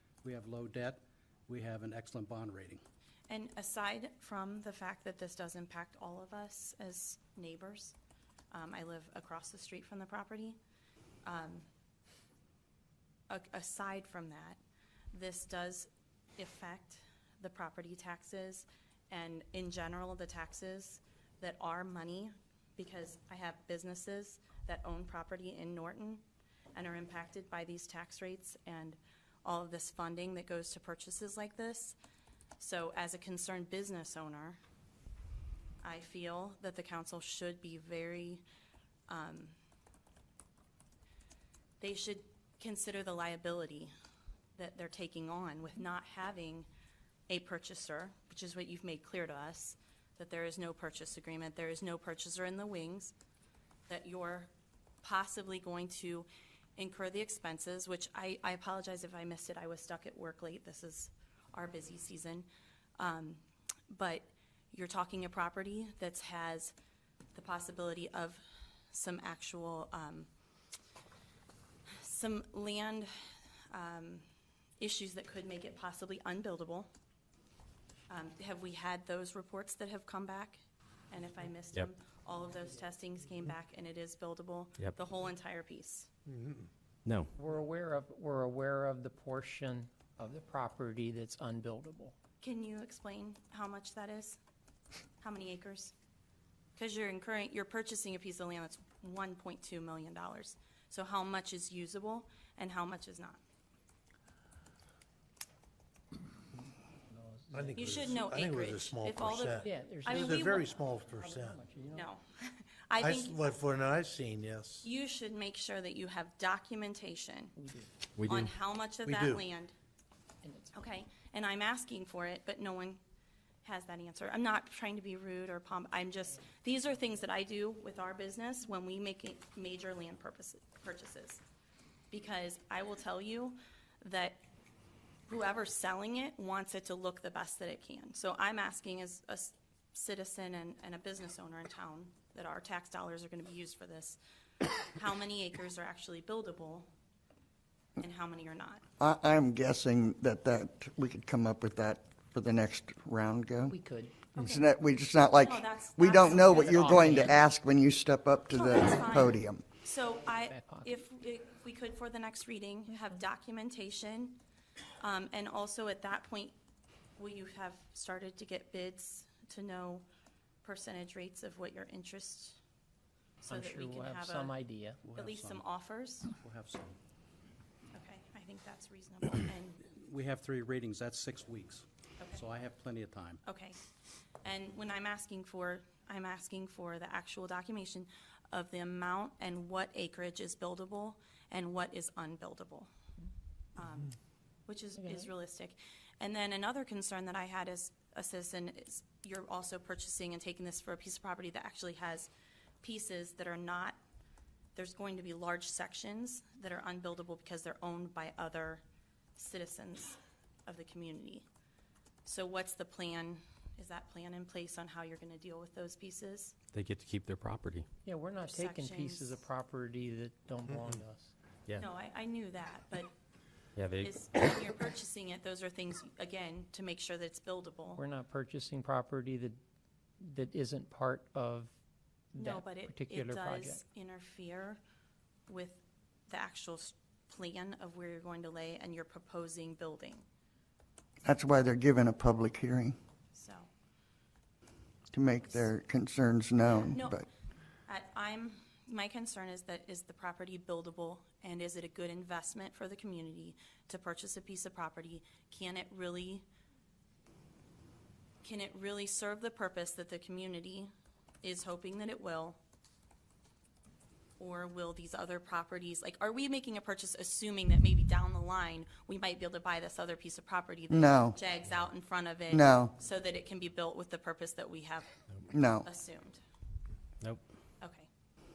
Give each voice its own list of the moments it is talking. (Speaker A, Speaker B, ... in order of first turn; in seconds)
Speaker A: 0.2-2.8, 175.0-175.6, 176.3-177.0, 179.8-183.4
Speaker B: 3.3-7.9, 8.5-10.6, 11.2-11.7, 13.3-14.6, 15.1-26.2, 26.7-31.9, 32.6-34.6, 35.8-38.4, 39.1-39.5, 41.8-43.9, 44.5-46.7, 47.3-53.1, 53.9-54.5, 55.0-62.5, 63.0-66.7, 67.3-68.4, 68.9-70.3, 71.9-73.1, 73.7-74.2, 74.8-76.9, 78.1-86.1, 92.4-94.4, 95.2-95.9, 96.8-103.4, 107.7-110.7, 111.9-113.5, 114.8-117.5, 118.2-119.7, 120.7-123.0, 123.6-131.4, 132.1-134.4, 135.3-144.2, 144.9-146.9, 148.0-148.8, 154.3-154.7, 155.3-157.3, 158.5-164.4, 165.0-166.5, 167.2-170.0, 170.6-172.6, 173.4-176.3, 177.9-179.8, 183.4-183.8, 184.4-192.9, 193.8-194.1, 194.7-202.3, 202.8-204.0, 204.8-208.8, 209.4-211.4, 212.2-216.5, 218.4-219.4, 221.7-223.1, 224.0-228.0, 232.4-234.8, 235.5-240.2, 243.3-243.7, 245.4-245.7, 246.6-247.2, 247.9-256.4, 258.4-260.9, 261.4-262.6, 264.4-275.1, 275.6-276.4, 277.8-278.1
Speaker C: 87.0-87.3, 118.1-118.5, 216.7-217.9, 223.7-224.5
Speaker D: 87.4-92.1, 107.1-107.5, 109.7-110.1, 111.0-111.9, 117.6-117.9, 120.4-120.7, 153.7-154.2, 156.6-157.3, 160.5-161.0, 173.5-175.0, 218.0-221.3, 227.9-229.6, 230.2-231.7, 232.3-233.8
Speaker E: 107.5-111.6, 113.0-114.8, 119.0-119.4
Speaker F: 149.0-153.8, 154.3-159.6, 241.2-242.9, 245.1-247.2, 270.9-271.4, 272.5-272.9, 275.5-275.9